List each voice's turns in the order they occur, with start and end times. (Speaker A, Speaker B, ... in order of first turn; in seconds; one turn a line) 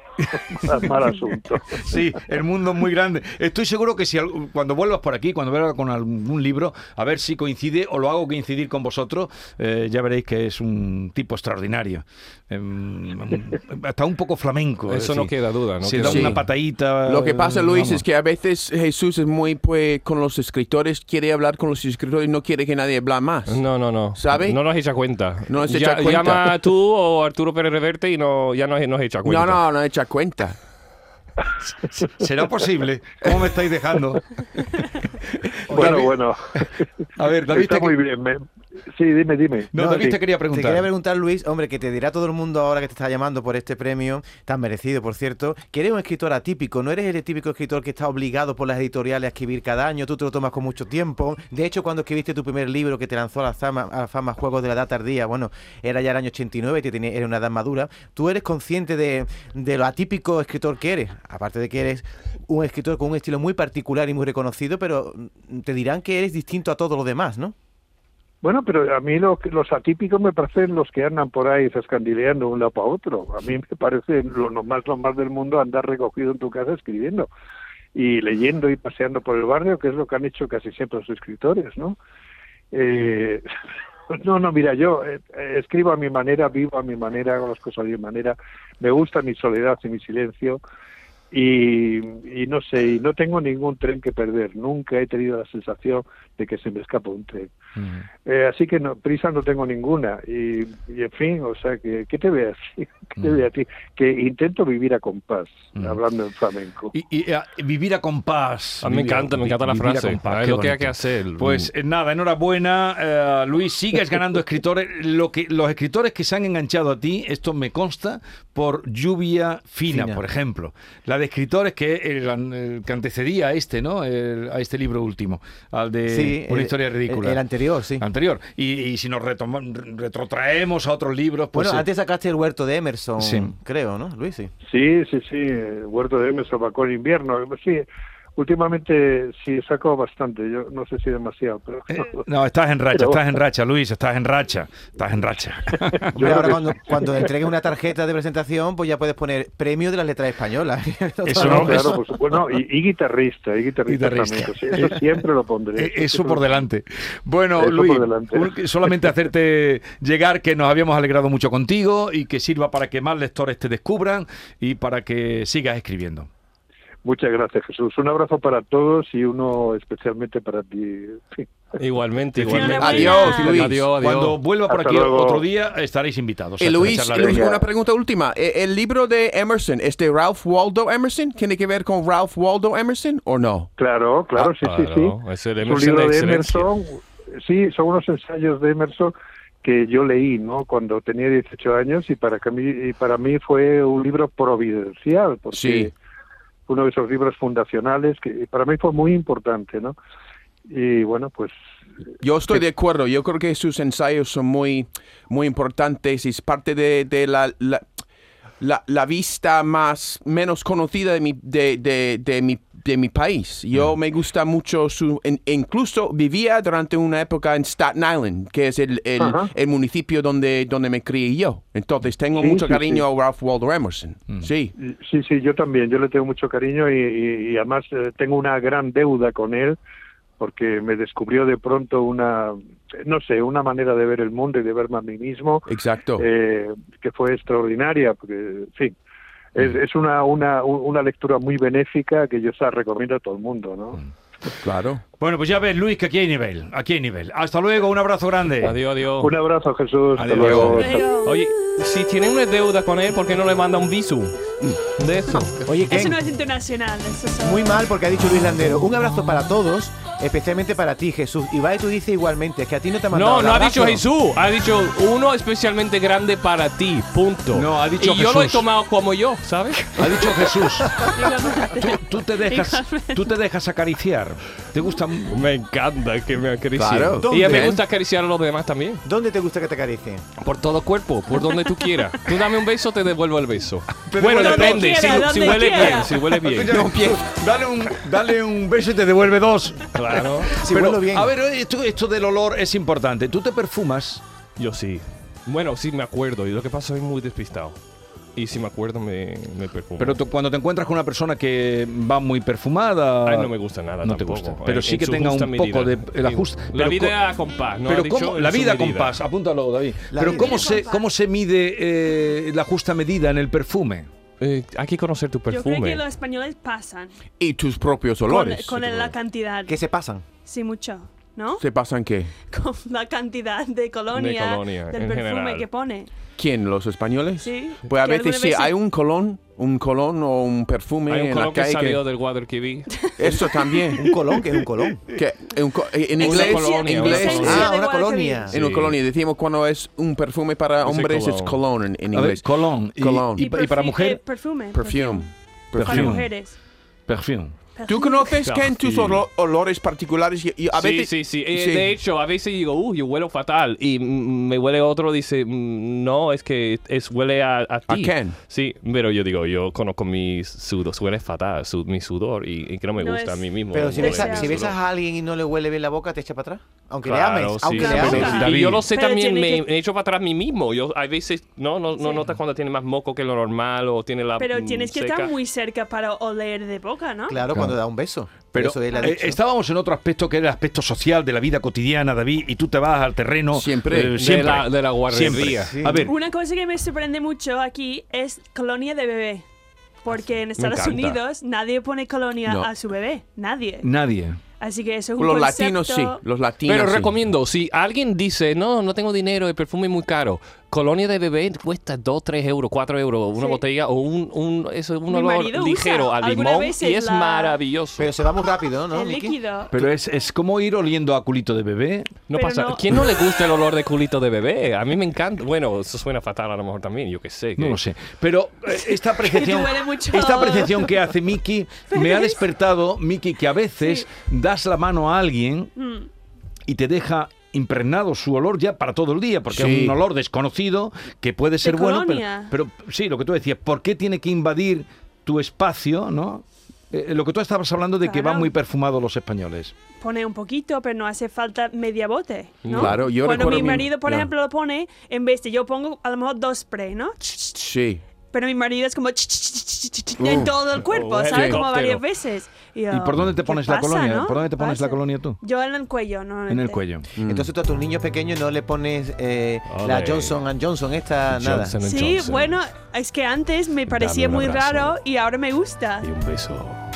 Speaker A: 0.3-1.8
Speaker B: 1.7-18.0
Speaker C: 14.9-16.4
Speaker D: 16.0-16.4
Speaker D: 17.1-24.6
Speaker C: 23.5-29.6
Speaker D: 25.5-26.5
Speaker D: 29.2-30.6
Speaker B: 31.9-34.8
Speaker B: 35.4-36.6
Speaker A: 35.7-36.8
Speaker B: 37.2-38.0
Speaker A: 37.5-38.4
Speaker A: 38.9-40.2
Speaker B: 39.7-40.9
Speaker E: 39.8-67.5
Speaker A: 68.4-77.3
Speaker A: 78.0-82.0
Speaker A: 82.7-83.5
Speaker A: 84.1-90.6
Speaker A: 91.3-97.5
Speaker B: 97.8-98.0
Speaker A: 98.2-106.9
Speaker B: 103.2-103.4
Speaker B: 106.9-127.4
Speaker C: 108.8-111.7
Speaker E: 119.9-120.2
Speaker E: 126.1-128.0
Speaker B: 128.0-131.9
Speaker E: 131.5-134.5
Speaker B: 133.2-133.5
Speaker A: 134.7-137.9
Speaker A: 138.4-142.2
Speaker B: 141.9-146.6
Speaker A: 142.9-143.2
Speaker A: 146.1-146.6
Speaker E: 146.2-152.0
Speaker B: 151.2-152.0
Speaker A: 151.4-156.6
Speaker B: 153.9-155.0
Speaker B: 155.8-166.3
Speaker A: 157.6-158.5
Speaker A: 167.0-171.5
Speaker C: 171.8-174.4
Speaker D: 172.5-173.8
Speaker F: 172.5-173.6
Speaker B: 172.6-177.5
Speaker A: 174.7-175.5
Speaker D: 176.6-183.7
Speaker A: 177.1-177.7
Speaker A: 183.8-195.9
Speaker C: 184.4-186.7
Speaker D: 195.5-195.9
Speaker A: 196.7-200.0
Speaker A: 200.7-201.6
Speaker D: 202.2-207.9
Speaker D: 208.6-224.7
Speaker A: 219.2-219.5
Speaker A: 222.4-223.0
Speaker A: 224.8-229.8
Speaker A: 230.4-235.7
Speaker D: 235.7-236.3
Speaker A: 236.2-239.0
Speaker A: 239.6-244.0
Speaker D: 244.6-245.0
Speaker B: 245.2-248.8
Speaker C: 248.6-249.3
Speaker A: 249.2-251.1
Speaker B: 250.2-250.9
Speaker F: 250.7-251.4
Speaker C: 251.2-254.3
Speaker C: 254.9-255.6
Speaker E: 255.6-256.2
Speaker F: 255.9-257.8
Speaker E: 257.4-264.0
Speaker C: 263.1-270.2
Speaker B: 267.5-268.7
Speaker B: 269.9-271.1
Speaker F: 271.1-273.3
Speaker B: 271.8-275.4
Speaker C: 275.3-279.0
Speaker D: 276.8-277.8
Speaker E: 277.2-277.8
Speaker E: 279.1-280.2
Speaker C: 280.4-286.9
Speaker B: 284.0-289.9
Speaker F: 284.2-286.1
Speaker D: 286.7-287.2
Speaker C: 289.9-290.5
Speaker B: 290.5-294.2
Speaker E: 290.6-291.3
Speaker C: 294.6-297.8
Speaker C: 298.4-300.2
Speaker B: 300.0-307.2
Speaker C: 303.2-309.2
Speaker B: 307.9-314.1
Speaker E: 310.1-310.9
Speaker F: 310.2-311.1
Speaker C: 314.4-316.0
Speaker F: 315.5-317.1
Speaker D: 317.4-319.1
Speaker F: 318.3-319.8
Speaker E: 319.7-320.2
Speaker F: 320.5-321.6
Speaker D: 321.6-322.3
Speaker F: 322.5-326.1
Speaker C: 324.1-325.7
Speaker D: 326.4-332.0
Speaker F: 327.4-328.7
Speaker C: 331.1-333.1
Speaker F: 333.0-333.5
Speaker D: 333.2-334.1
Speaker E: 334.0-335.0
Speaker D: 335.1-337.7
Speaker F: 336.2-338.5
Speaker C: 336.2-337.7
Speaker E: 337.4-338.6
Speaker C: 338.5-338.9
Speaker D: 338.5-343.4
Speaker C: 340.8-341.6
Speaker B: 342.1-344.2
Speaker F: 343.4-346.6
Speaker D: 344.7-346.2
Speaker B: 345.8-346.3
Speaker B: 347.1-347.6
Speaker F: 347.8-348.4
Speaker D: 347.9-351.9
Speaker C: 348.4-349.2
Speaker C: 350.7-364.8
Speaker D: 357.9-358.4
Speaker F: 363.0-364.6
Speaker E: 363.7-368.4
Speaker C: 367.1-375.3
Speaker F: 367.7-369.6
Speaker B: 367.9-368.9
Speaker F: 372.0-372.2
Speaker F: 374.4-377.4
Speaker E: 377.3-379.4
Speaker B: 378.5-386.1
Speaker D: 383.5-384.2
Speaker C: 384.1-385.7
Speaker E: 385.7-386.1
Speaker F: 386.1-389.4
Speaker F: 390.0-393.9
Speaker C: 390.6-391.2
Speaker B: 393.8-394.4
Speaker F: 394.6-396.2
Speaker D: 395.2-397.1
Speaker C: 396.7-408.1
Speaker F: 405.1-407.6
Speaker E: 408.0-409.4
Speaker F: 408.9-409.7
Speaker B: 409.7-412.1
Speaker C: 412.3-417.8
Speaker F: 412.3-413.1
Speaker B: 417.6-425.7
Speaker F: 418.8-420.9
Speaker F: 421.9-422.4
Speaker F: 423.8-424.1
Speaker F: 425.8-426.1
Speaker B: 426.7-439.7
Speaker D: 429.5-430.0
Speaker F: 431.6-432.5
Speaker F: 438.0-438.5
Speaker F: 440.0-447.6
Speaker C: 442.6-443.0
Speaker D: 442.7-444.3
Speaker D: 447.6-448.0
Speaker F: 448.3-456.8
Speaker D: 450.2-450.5
Speaker C: 450.8-452.0
Speaker D: 451.3-451.6
Speaker B: 452.9-455.4
Speaker B: 456.5-457.1
Speaker D: 457.2-457.5
Speaker E: 457.2-461.8
Speaker C: 459.7-460.4
Speaker C: 461.3-462.6
Speaker F: 461.9-466.1
Speaker C: 463.9-464.9
Speaker C: 466.0-466.9